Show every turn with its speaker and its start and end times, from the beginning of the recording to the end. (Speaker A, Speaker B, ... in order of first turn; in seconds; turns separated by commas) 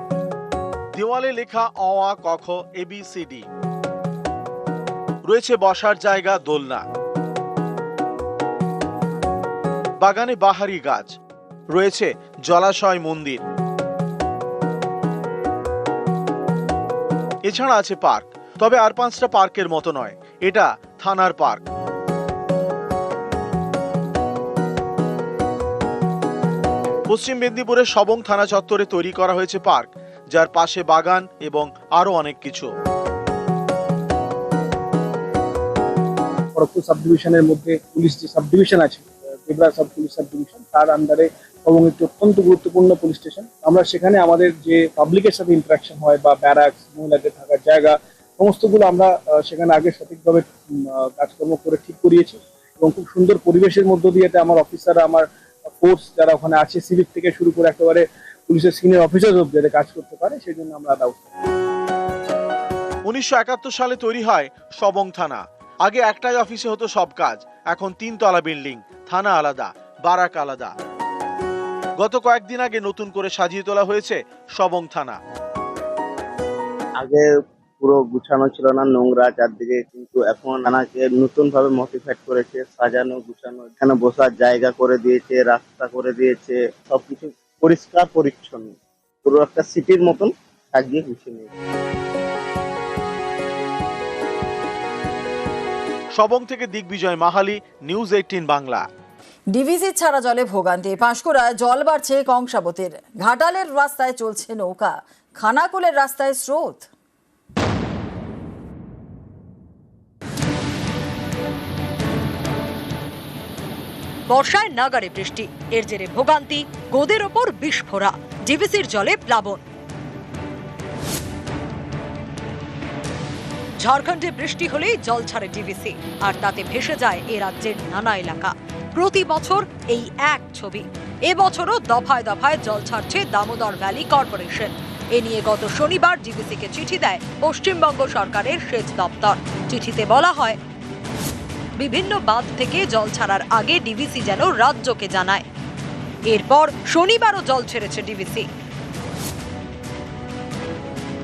Speaker A: 0.9-3.5, Speaker A: 5.2-6.8, Speaker A: 10.0-11.1, Speaker A: 11.7-13.4, Speaker A: 17.4-21.6, Speaker A: 27.1-32.7, Speaker B: 36.5-55.3, Speaker B: 55.8-61.3, Speaker A: 63.1-70.7, Speaker A: 72.0-75.2, Speaker C: 77.0-77.3, Speaker C: 77.8-91.5, Speaker A: 96.2-98.8, Speaker D: 99.5-106.9, Speaker E: 114.3-119.6, Speaker E: 123.8-140.6, Speaker E: 141.8-145.4, Speaker E: 146.3-148.4